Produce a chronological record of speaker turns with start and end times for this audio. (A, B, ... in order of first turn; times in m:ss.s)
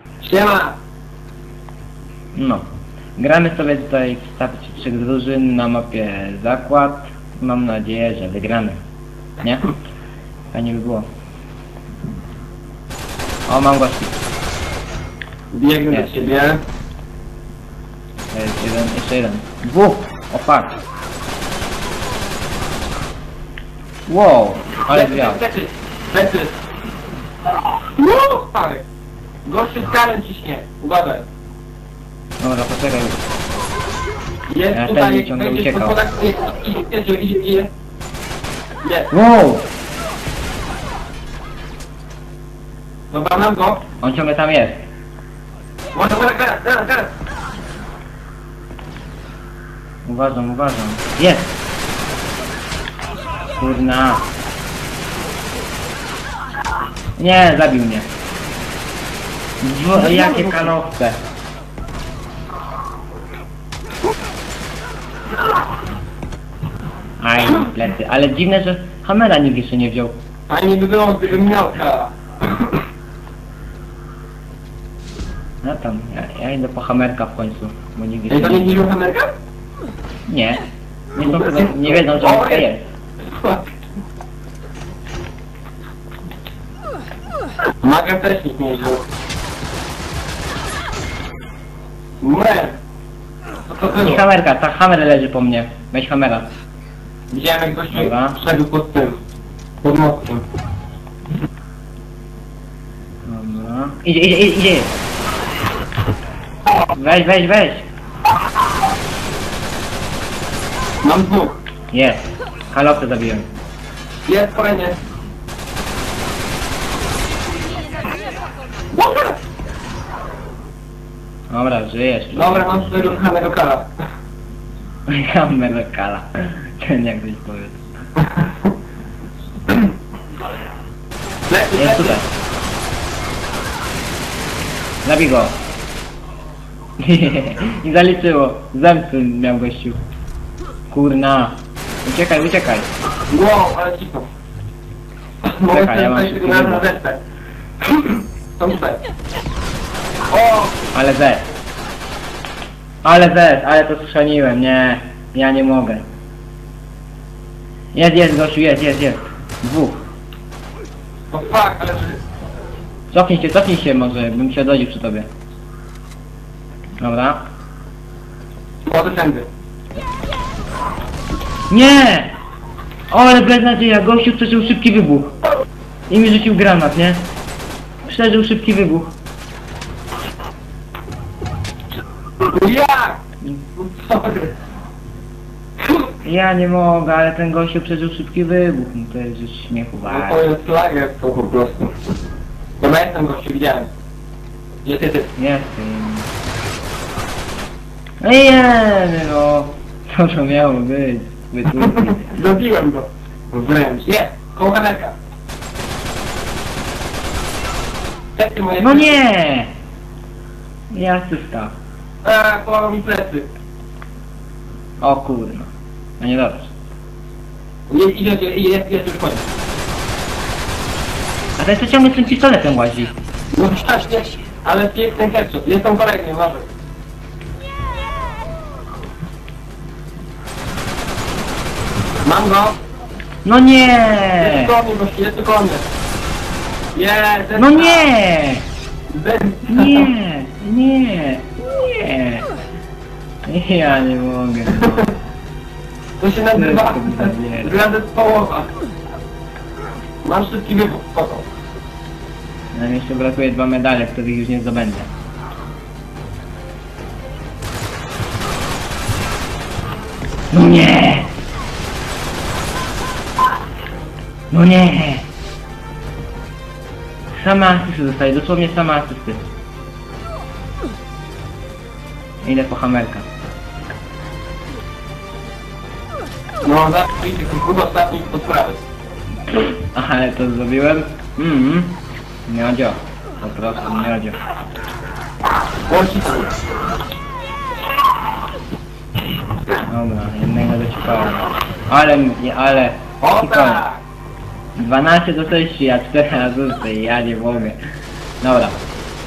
0:00.2-0:00.8 A
0:02.3-0:02.6 B
0:03.2-0:08.8 B
0:09.4-0:09.7 B
0:10.5-0:11.0 B
0:13.5-0:14.1 B
0:15.5-0:16.6 A
0:18.3-0:20.8 B
0:24.1-0:25.4 B
0:24.8-0:26.6 A
0:27.8-0:28.8 A
0:29.4-0:31.3 A
0:32.4-0:33.2 B
0:34.5-0:37.7 A
0:34.7-0:36.0 B
0:38.8-0:39.1 A
0:39.1-0:39.7 B
0:43.1-0:43.9 A
0:43.9-0:44.9 B
0:45.9-0:47.1 A
0:50.0-0:51.6 B
0:53.6-0:54.3 B
0:57.2-0:58.1 B
0:59.6-1:01.2 B
1:00.0-1:00.7 A
1:07.2-1:10.2 B
1:10.5-1:12.7 A
1:15.6-1:18.9 B
1:18.3-1:19.3 A
1:20.3-1:20.6 B
1:21.1-1:22.8 B
1:21.2-1:22.7 A
1:23.2-1:23.6 A
1:27.8-1:29.0 A
1:32.2-1:32.8 A
1:33.7-1:34.2 A
1:33.9-1:36.4 B
1:37.3-1:39.2 A
1:37.9-1:38.4 B
1:39.8-1:40.4 A
1:43.2-1:45.0 B
1:46.9-1:47.9 B
1:51.0-1:51.5 A
1:51.9-1:53.5 B
1:54.3-1:55.0 A
1:58.9-1:59.3 A
2:01.5-2:03.2 B
2:02.3-2:03.9 A
2:05.1-2:07.8 B
2:11.5-2:12.2 A
2:11.8-2:12.3 B
2:15.0-2:15.6 B
2:17.0-2:20.0 B
2:20.9-2:22.9 B
2:23.3-2:24.3 A
2:25.4-2:27.2 A
2:25.7-2:26.8 B
2:27.8-2:29.0 A
2:30.3-2:30.8 A
2:30.9-2:31.4 B
2:33.0-2:36.0 B
2:37.9-2:40.0 B
2:41.3-2:42.2 A
2:43.1-2:45.2 B
2:47.0-2:47.4 B
2:48.9-2:49.5 A
2:51.7-2:52.3 B
2:53.1-2:55.3 B
2:56.1-2:57.3 B
2:58.0-2:59.1 B
3:02.4-3:03.2 A
3:03.8-3:04.5 A
3:06.2-3:10.4 B
3:10.0-3:11.9 A
3:12.8-3:13.9 A
3:14.8-3:15.3 A
3:15.4-3:16.3 B
3:18.2-3:22.4 B
3:21.8-3:25.2 A
3:28.4-3:29.2 A
3:28.8-3:29.7 B
3:30.9-3:31.7 B
3:32.2-3:33.5 A
3:35.0-3:36.7 B
3:37.9-3:39.4 A
3:41.6-3:43.2 B
3:43.5-3:46.7 A
3:52.2-3:52.8 A
3:53.4-3:54.7 B
3:54.4-3:55.8 A
3:56.9-3:58.1 A
3:57.6-3:58.7 B
3:59.1-4:00.1 A
3:59.7-4:02.4 B
4:03.4-4:04.9 B
4:04.8-4:05.0 A
4:06.2-4:08.7 A
4:06.5-4:07.8 B
4:10.2-4:11.4 A
4:12.7-4:15.1 B
4:20.5-4:21.3 B
4:24.5-4:25.3 B
4:27.3-4:29.4 B
4:32.4-4:33.2 B
4:36.6-4:38.8 A
4:39.8-4:44.4 B
4:45.9-4:46.5 A
4:49.8-4:53.8 B
4:53.2-4:54.0 A
4:54.8-4:57.8 B
4:58.4-4:58.8 B